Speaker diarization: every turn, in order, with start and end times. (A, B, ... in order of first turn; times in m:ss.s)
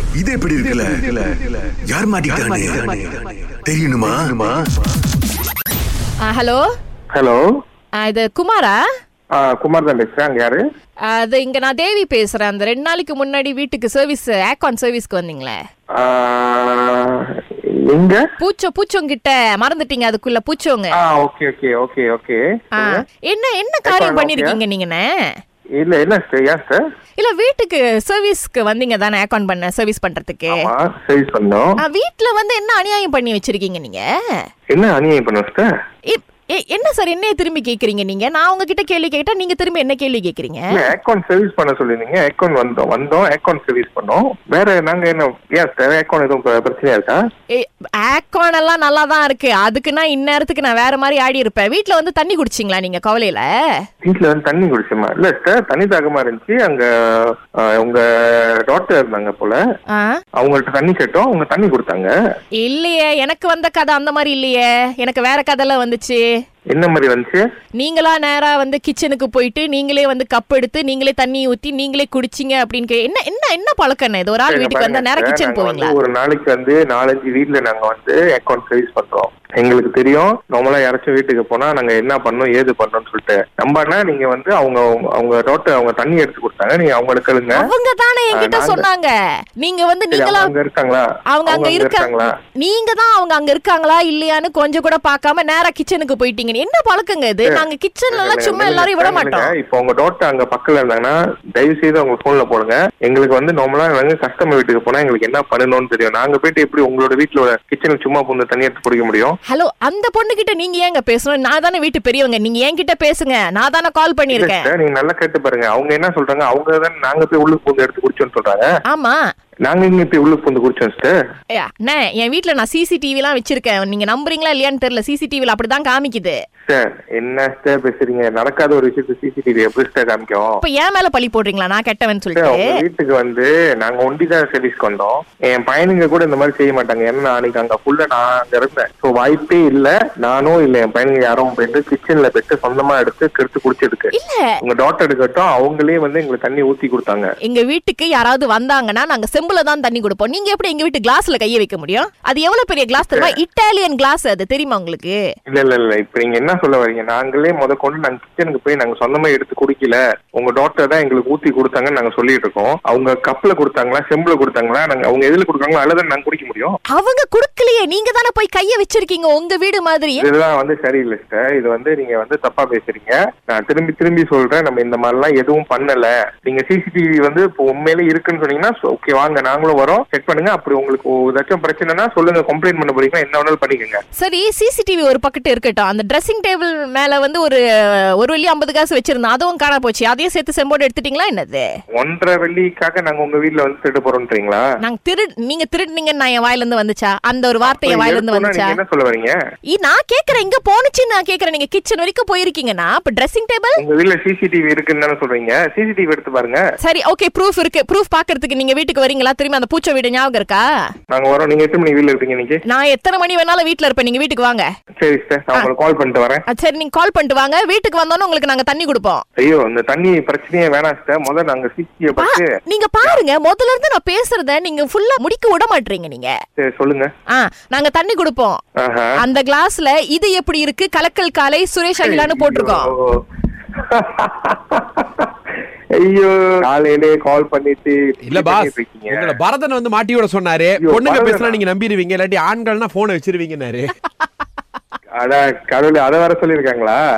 0:00.2-0:04.7 A
0:06.2-0:06.6 B
0:07.1-0:07.4 C
0:08.0-0:08.8 B
0:09.4-0:10.6 C
0:11.1-0:15.6 B
0:16.0-0:17.3 C
0:17.9-0:18.2 C
0:18.4-0:21.0 B
0:21.0-0:23.0 C
0:22.8-0:25.1 B
0:23.8-0:24.6 C
0:25.8-0:26.8 C
0:27.2-0:30.7 B
0:30.5-0:31.7 C
0:31.8-0:34.0 B
0:34.7-0:35.7 C
0:36.1-0:40.8 B
0:40.7-0:47.2 C
0:47.6-0:53.5 B
0:54.0-0:59.6 C
1:00.4-1:02.1 C
1:02.6-1:06.2 B
1:06.7-1:07.4 C
1:07.8-1:16.0 B
1:14.5-1:27.7 C
1:27.5-1:30.5 B
1:28.3-1:28.9 C
1:30.1-1:32.3 C
1:31.3-1:39.5 B
1:37.4-1:49.4 C
1:49.5-1:54.7 B
1:54.3-1:58.7 C
1:58.9-1:59.2 B
1:59.7-2:01.2 C
2:01.6-2:06.4 B
2:06.7-2:10.6 C
2:10.6-2:12.7 B
2:12.4-2:27.3 C
2:24.1-2:24.5 B
2:27.4-2:35.2 B
2:33.0-2:33.4 C
2:35.5-2:46.8 C
2:46.9-2:50.3 B
2:50.2-3:04.0 C
3:04.2-3:07.6 B
3:08.2-3:11.6 B
3:12.0-3:14.7 C
3:14.8-3:18.8 B
3:17.6-3:19.4 C
3:19.7-3:23.8 B
3:23.8-3:26.6 C
3:26.8-3:30.7 B
3:31.1-3:32.6 C
3:32.7-3:34.7 B
3:35.0-3:36.4 C
3:36.5-3:39.2 B
3:39.4-3:42.5 C
3:42.2-3:46.3 B
3:46.6-3:47.1 C
3:47.3-3:48.6 B
3:48.8-3:49.1 C
3:49.2-3:52.9 B
3:52.0-3:53.2 C
3:53.8-3:55.3 C
3:56.0-3:59.3 C
3:58.3-4:03.9 D
4:00.8-4:01.6 C
4:05.2-4:07.0 C